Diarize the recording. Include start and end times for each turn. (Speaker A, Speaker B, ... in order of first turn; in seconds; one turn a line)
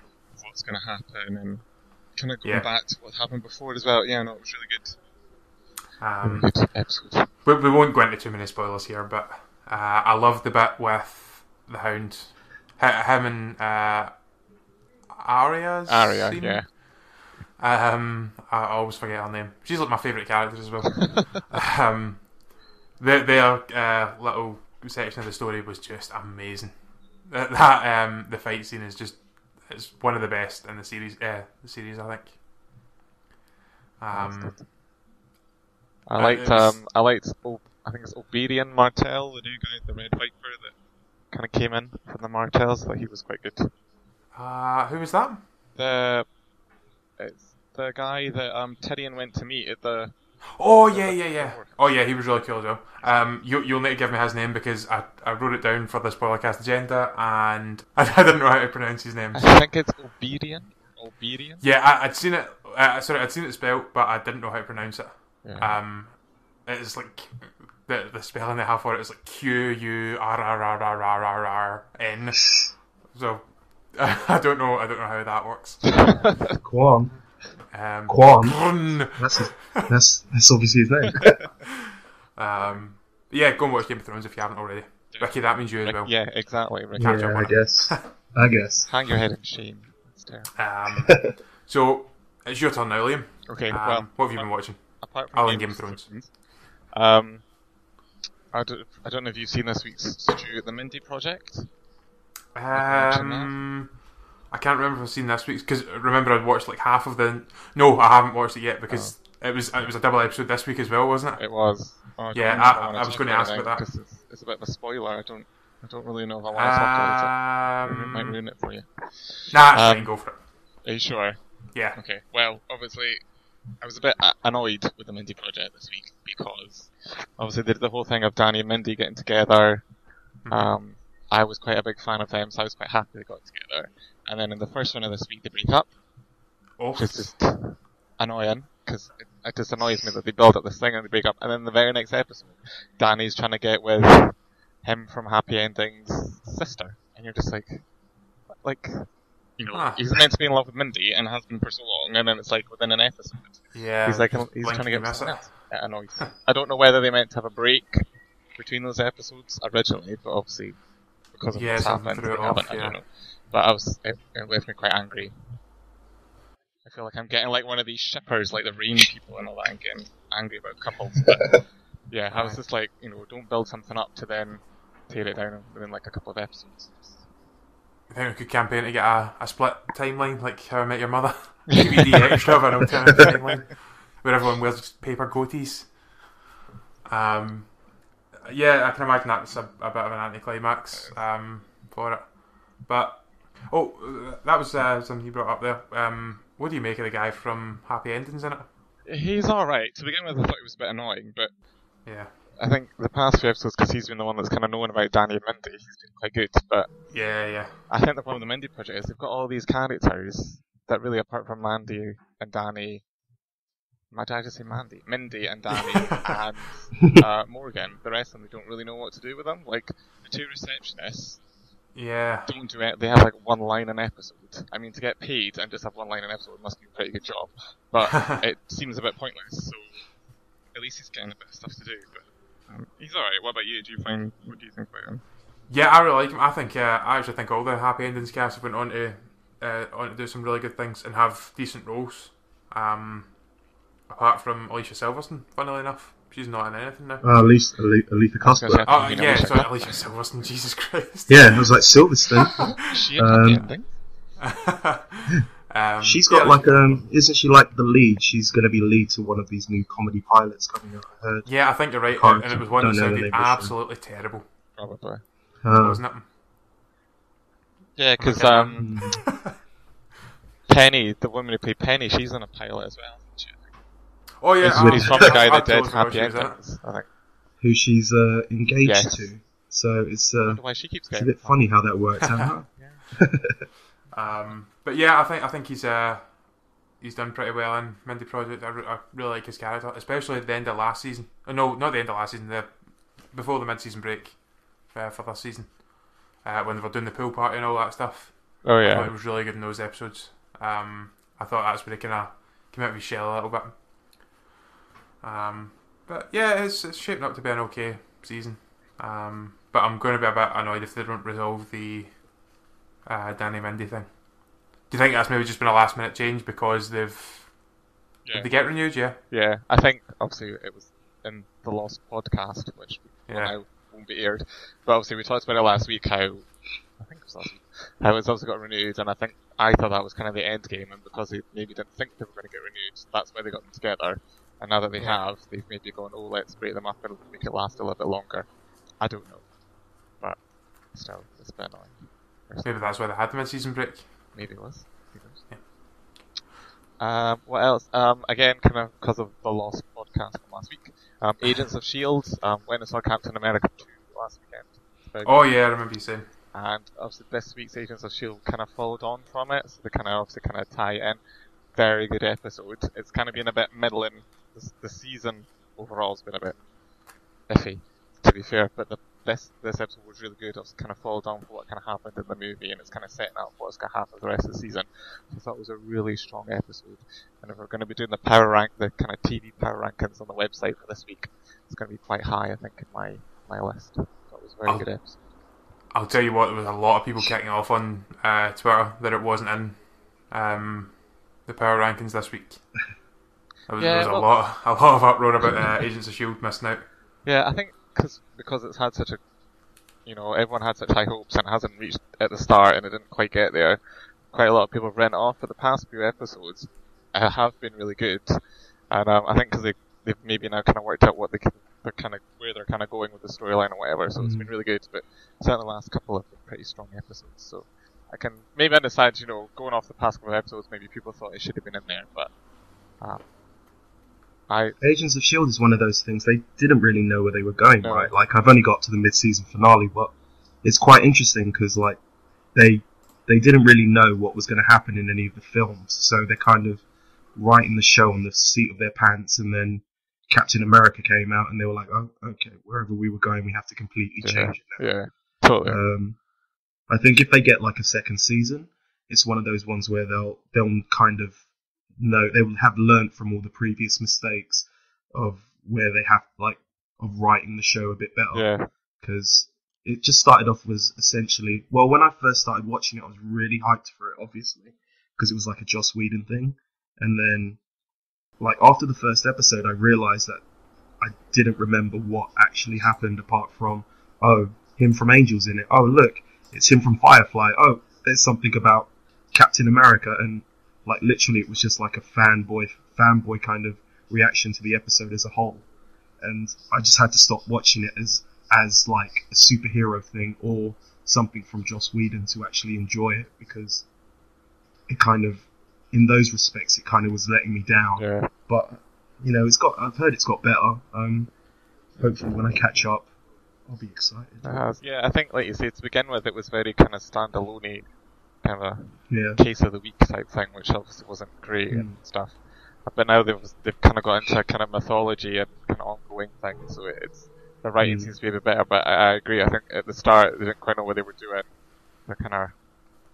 Speaker A: 0.3-5.1
Speaker B: 6.0-14.3
Speaker A: 6.2-7.3
Speaker B: 15.1-32.4
Speaker A: 15.9-16.7
Speaker B: 34.0-34.6
Speaker A: 34.1-34.7
Speaker A: 36.0-43.7
Speaker B: 36.1-36.8
Speaker B: 44.3-45.5
Speaker A: 45.8-46.3
Speaker A: 47.2-52.0
Speaker B: 50.5-59.7
Speaker A: 59.3-61.6
Speaker B: 61.6-76.2
Speaker A: 65.4-65.8
Speaker A: 75.8-76.6
Speaker C: 76.6-77.3
Speaker B: 77.7-79.9
Speaker C: 78.0-81.4
Speaker B: 82.4-86.2
Speaker A: 85.1-87.4
Speaker B: 87.0-88.1
Speaker C: 87.0-88.9
Speaker A: 88.8-90.5
Speaker B: 90.5-96.1
Speaker C: 90.9-91.3
Speaker A: 93.5-97.5
Speaker A: 98.5-101.8
Speaker B: 102.5-113.9
Speaker A: 102.7-103.5
Speaker A: 108.9-109.4
Speaker A: 111.4-136.0
Speaker B: 116.5-118.4
Speaker B: 119.5-120.4
Speaker B: 121.7-122.0
Speaker B: 130.4-130.7
Speaker B: 136.8-137.6
Speaker A: 136.9-165.6
Speaker B: 149.7-150.1
Speaker B: 153.7-156.3
Speaker B: 161.5-163.0
Speaker A: 166.8-177.2
Speaker B: 172.3-172.6
Speaker B: 178.1-186.3
Speaker A: 181.8-182.1
Speaker B: 187.1-198.7
Speaker A: 190.9-191.2
Speaker A: 199.0-201.6
Speaker B: 202.1-202.3
Speaker A: 202.5-213.1
Speaker B: 207.1-207.8
Speaker A: 214.1-221.4
Speaker B: 221.9-222.5
Speaker A: 222.5-230.1
Speaker A: 230.7-235.2
Speaker B: 235.7-243.4
Speaker B: 244.1-247.4
Speaker C: 247.2-248.9
Speaker A: 248.4-250.0
Speaker B: 248.9-252.7
Speaker C: 251.3-253.8
Speaker A: 252.7-254.0
Speaker B: 254.4-257.1
Speaker C: 256.0-263.8
Speaker B: 261.4-264.5
Speaker A: 264.8-265.3
Speaker C: 265.6-266.0
Speaker B: 265.8-266.3
Speaker A: 267.9-269.1
Speaker B: 268.2-269.5
Speaker C: 268.8-269.2
Speaker A: 270.7-273.8
Speaker B: 274.4-276.7
Speaker C: 274.6-275.4
Speaker A: 274.6-277.1
Speaker C: 277.6-283.6
Speaker A: 278.8-279.3
Speaker A: 280.4-281.8
Speaker B: 282.2-282.5
Speaker A: 282.7-283.0
Speaker B: 284.1-304.3
Speaker A: 298.6-299.1
Speaker B: 305.2-312.2
Speaker B: 313.0-317.7
Speaker A: 318.2-343.0
Speaker B: 318.3-319.2
Speaker B: 323.3-323.6
Speaker B: 342.6-344.4
Speaker A: 344.3-345.6
Speaker A: 347.0-355.7
Speaker B: 355.2-356.3
Speaker A: 356.5-366.7
Speaker A: 367.4-385.1
Speaker B: 384.6-384.9
Speaker B: 385.9-392.9
Speaker B: 393.6-396.9
Speaker A: 393.8-394.3
Speaker A: 397.2-399.3
Speaker A: 399.9-423.3
Speaker C: 414.1-414.5
Speaker A: 424.5-424.8
Speaker C: 424.8-432.0
Speaker A: 427.8-428.1
Speaker C: 432.5-436.8
Speaker C: 437.4-446.2
Speaker A: 444.2-445.8
Speaker C: 446.9-451.4
Speaker C: 451.9-467.6
Speaker A: 458.3-458.7
Speaker C: 468.4-470.4
Speaker C: 471.0-485.6
Speaker C: 486.2-493.9
Speaker C: 494.9-501.3
Speaker A: 497.9-498.3
Speaker C: 502.0-503.1
Speaker C: 503.7-504.6
Speaker A: 504.4-522.7
Speaker C: 509.1-509.4
Speaker C: 511.7-512.0
Speaker C: 517.8-518.1